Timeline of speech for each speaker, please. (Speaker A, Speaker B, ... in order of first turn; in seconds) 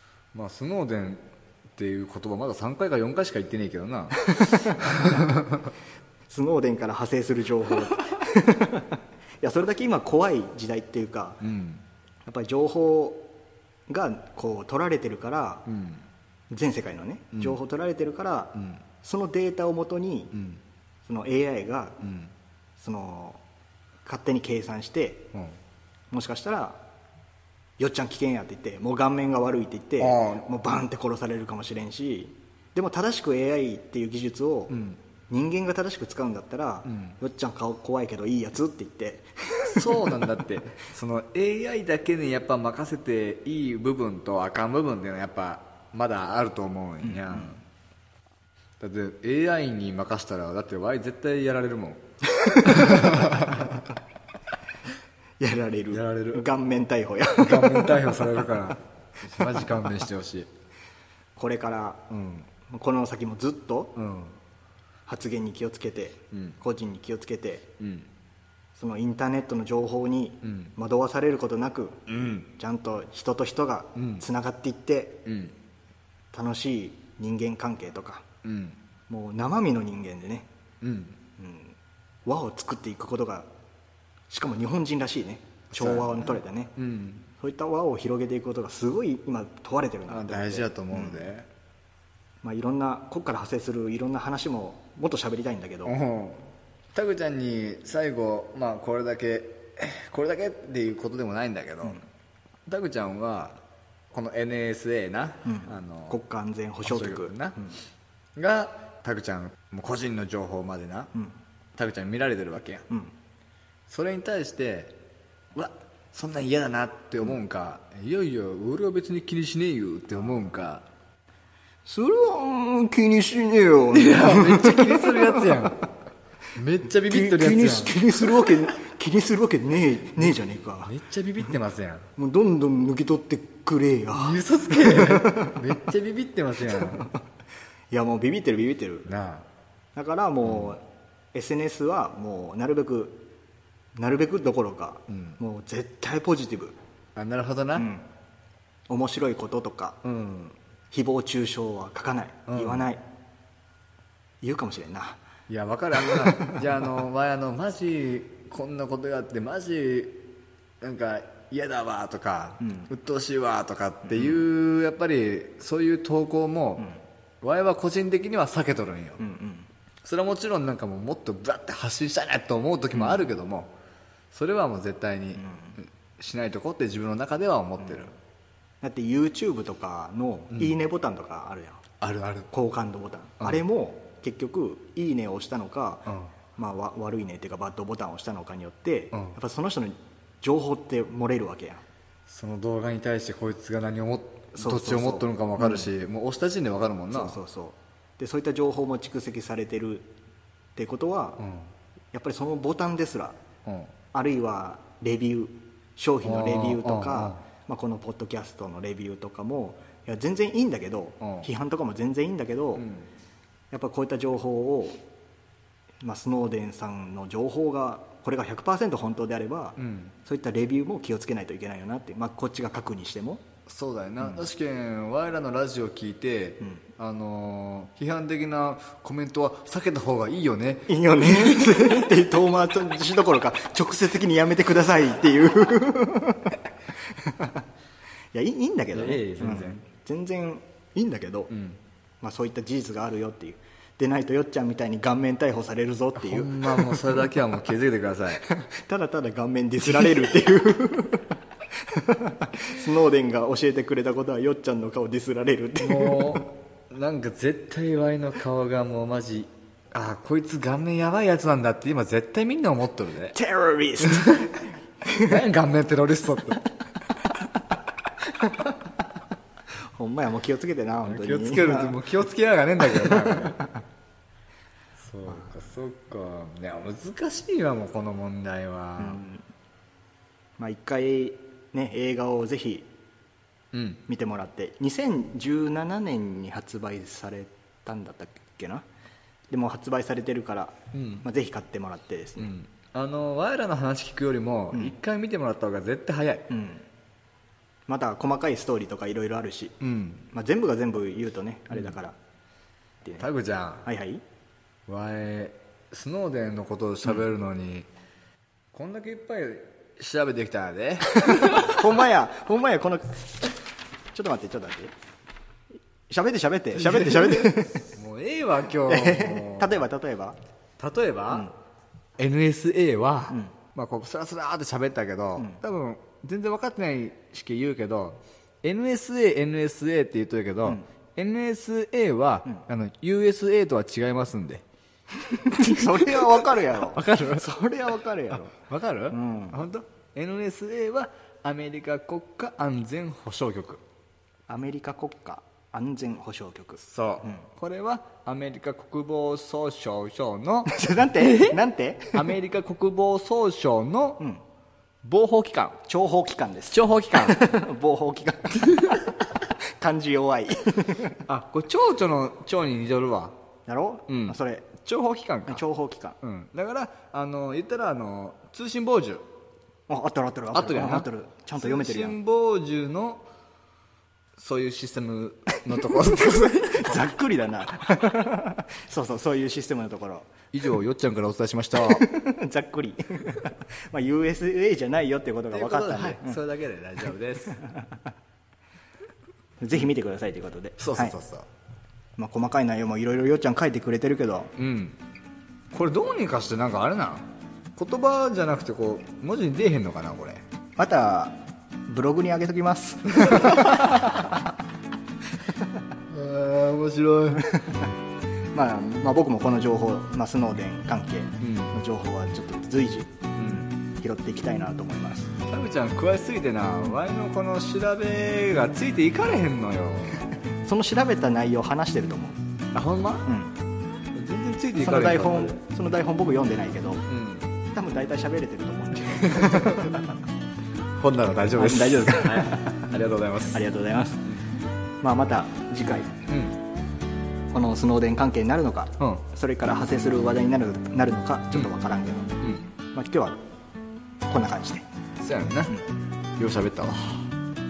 Speaker A: 0.3-5.7, 11.4-11.8, 15.7-16.1, 18.6-18.8, 20.3-20.6, 22.0-22.3, 30.0-30.4, 34.7-35.0, 36.9-37.1, 39.6-47.6, 48.8-53.9, 55.9-56.5, 57.4-60.5, 62.1-62.5, 64.0-64.4, 66.3-66.6, 67.8-68.1, 70.4-70.7, 72.1-72.5, 74.0-74.2, 75.2-75.5, 78.4-78.8, 80.8-81.2, 85.7-87.3, 90.1-91.5, 95.8-102.0, 102.7-103.6, 104.1-106.2, 106.8-107.6, 108.3-111.1, 111.7-112.9, 113.9-115.0, 115.5-120.9, 123.9-125.8, 126.5-128.1, 130.2-132.1, 134.1-137.1, 139.1-139.5, 140.4-140.7, 145.1-145.4, 147.1-147.9, 150.0-150.6, 152.5-152.9, 155.5-160.2, 160.8-166.9, 167.4-169.2, 170.0-173.7, 174.3-178.1, 182.0-182.5, 192.3-197.4, 201.4-201.7, 203.7-203.9, 206.2-207.4, 211.2-211.5, 212.7-213.1, 219.8-220.1, 223.7-232.1, 238.9-239.8, 241.5-241.8, 246.2-248.4, 255.8-263.4, 264.0-264.6, 265.2-266.7, 271.0-273.6, 275.0-279.2, 283.7-284.0, 290.9-291.3, 292.4-296.5, 299.8-300.3, 303.2-303.9, 304.9-307.9, 308.7-311.8, 316.7-319.8, 320.8-321.5, 322.2-334.6, 335.7-337.5, 338.5-343.8, 346.8-351.6, 352.1-354.2, 355.0-355.8, 356.7-357.5, 361.3-363.4, 364.1-365.6, 366.2-369.2, 370.5-373.2, 374.4-377.1, 380.5-382.1, 385.5-387.6, 390.8-391.5, 394.6-395.0, 395.7-400.4, 403.2-403.9, 406.1-407.6, 411.4-411.7, 413.3-413.7, 415.4-420.2, 422.7-423.3, 424.1-425.6, 427.1-427.5, 429.3-430.0, 431.0-433.6, 436.3-436.6, 445.2-445.8, 446.4-447.3
Speaker B: 4.2-5.2, 6.3-11.4, 12.2-13.2, 13.9-15.7, 16.5-20.4, 21.1-22.0, 22.8-23.4, 24.1-25.3, 26.1-26.8, 27.8-40.4, 47.0-47.6, 52.3-53.7, 55.4-58.5, 61.4-62.1, 62.7-64.0, 65.1-67.7, 68.8-75.3, 76.3-78.2, 79.1-80.5, 81.4-83.5, 84.3-86.7, 87.4-91.3, 92.4-96.0, 105.5-107.8, 121.8-125.8, 127.0-130.9, 132.2-135.6, 136.8-137.2, 137.9-139.1, 139.9-143.2, 143.9-146.7, 147.7-148.1, 148.9-150.0, 150.9-153.0, 154.4-155.2, 156.1-156.6, 162.6-162.9, 164.1-164.4, 169.2-169.7, 175.3-175.8, 178.8-181.8, 182.5-191.8, 194.6-195.9, 197.1-200.1, 200.8-201.4, 202.1-203.4, 204.1-212.9, 213.7-215.0, 216.0-223.4, 230.9-236.6, 237.2-237.6, 238.3-241.5, 242.2-247.2, 248.4-256.4, 263.3-265.4, 270.0-272.0, 273.0-273.7, 279.0-279.4, 280.6-282.9, 284.1-288.8, 289.5-292.5, 296.5-296.8, 297.9-299.8, 300.3-302.1, 303.8-304.2, 311.2-313.5, 314.1-314.9, 316.1-317.9, 318.9-320.4, 335.3-338.6, 339.1-339.6, 344.5-347.4, 350.7-352.3, 355.9-361.2, 363.7-364.7, 365.4-366.2, 369.9-372.2, 376.7-380.3, 381.8-386.4, 387.7-387.9, 389.6-391.1, 392.2-394.5, 400.8-404.4, 408.5-413.1, 413.8-415.3, 420.6-422.4, 423.2-423.5, 424.8-427.1, 427.7-430.1, 431.6-432.9, 433.5-434.3, 435.0-436.2, 437.5-442.4, 442.9-443.4, 444.3-444.8